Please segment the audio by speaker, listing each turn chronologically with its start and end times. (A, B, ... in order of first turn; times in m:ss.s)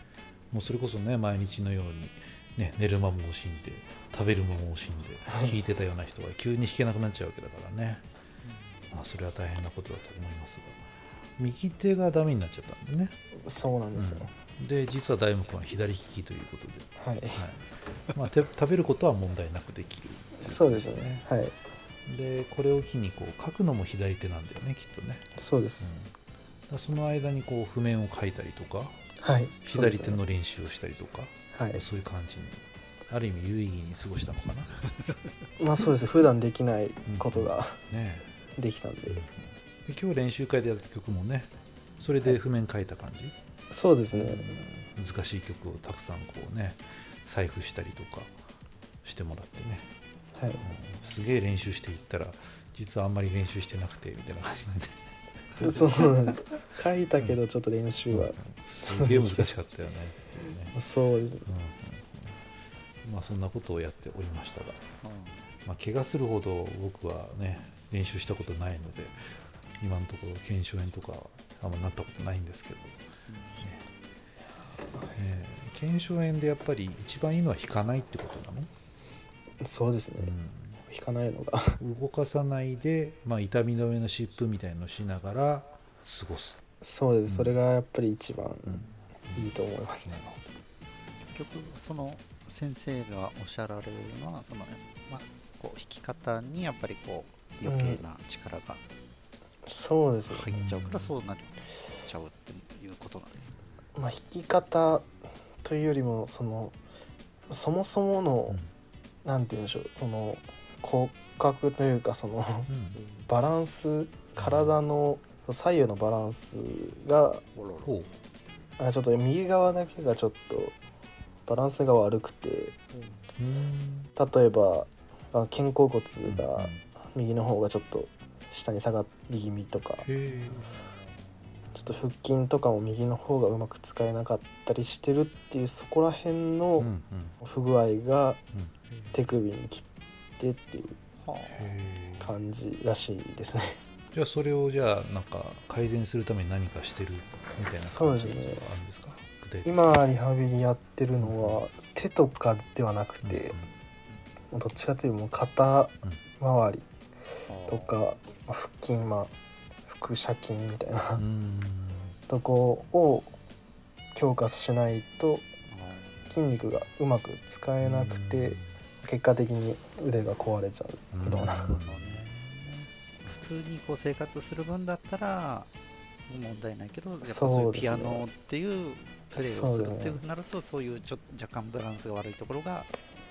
0:00.5-0:08.0 A
0:05.3-0:05.6 B
0:08.9-0:10.8 A
0:11.4-0:13.1 A
0:13.4-0:14.3 B
0:13.9-0:21.3 A
0:17.0-0:17.4 B
0:20.4-0:21.6 B
0:22.1-0:25.3 A
0:25.4-0:25.9 B
0:25.8-0:26.1 A
0:26.7-0:29.0 A
0:29.2-0:30.2 B
0:29.6-0:34.7 A
0:31.5-0:31.8 B
0:35.6-0:37.8 B
0:37.1-0:38.3 A
0:38.6-0:39.2 B
0:39.1-0:43.3 A
0:43.7-0:44.7 B
0:44.1-0:48.4 A
0:49.0-0:49.9 A
0:50.4-0:50.7 B
0:50.6-0:55.0 A
0:55.6-0:59.5 B
0:55.6-0:56.1 A
0:58.1-1:00.8 A
1:00.7-1:01.5 B
1:01.4-1:02.4 A
1:03.0-1:04.8 A
1:05.0-1:05.4 C
1:05.6-1:09.2 A
1:09.8-1:13.0 A
1:13.3-1:13.7 C
1:13.6-1:13.9 A
1:14.9-1:15.2 B
1:15.2-1:18.7 A
1:19.6-1:20.3 B
1:20.2-1:20.8 A
1:20.8-1:21.8 B
1:21.8-1:26.6 A
1:26.8-1:30.2 B
1:27.2-1:27.6 A
1:28.7-1:29.5 A
1:30.1-1:30.4 A
1:31.4-1:38.8 C
1:37.6-1:38.0 B
1:39.7-1:40.5 B
1:40.3-1:43.6 C
1:40.5-1:41.1 A
1:44.0-1:45.1 B
1:45.6-1:46.8 B
1:47.5-1:48.6 B
1:49.2-1:52.7 B
1:52.7-1:53.0 A
1:53.0-1:53.2 C
1:53.3-1:57.4 B
1:54.4-1:54.8 A
1:57.6-1:57.9 C
1:57.8-1:58.1 A
1:58.8-2:00.8 B
2:01.5-2:02.8 B
2:03.4-2:04.1 A
2:04.2-2:10.1 B
2:06.2-2:06.8 A
2:10.0-2:10.7 A
2:11.7-2:18.4 B
2:16.8-2:17.4 A
2:19.1-2:19.9 B
2:20.4-2:21.0 B
2:21.2-2:21.7 C
2:21.5-2:22.4 A
2:22.2-2:23.8 B
2:24.1-2:29.9 A
2:27.8-2:28.7 B
2:29.6-2:33.6 B
2:31.2-2:31.6 A
2:33.2-2:33.7 A
2:34.5-2:36.9 B
2:37.5-2:38.0 C
2:37.7-2:39.3 B
2:39.9-2:41.2 B
2:41.2-2:42.2 A
2:42.3-2:43.4 B
2:44.1-2:45.4 B
2:45.7-2:46.4 C
2:46.3-2:51.8 B
2:47.8-2:48.7 A
2:51.1-2:52.2 A
2:51.7-2:55.7 C
2:56.3-3:03.0 C
2:57.2-2:58.3 B
2:59.3-3:00.2 B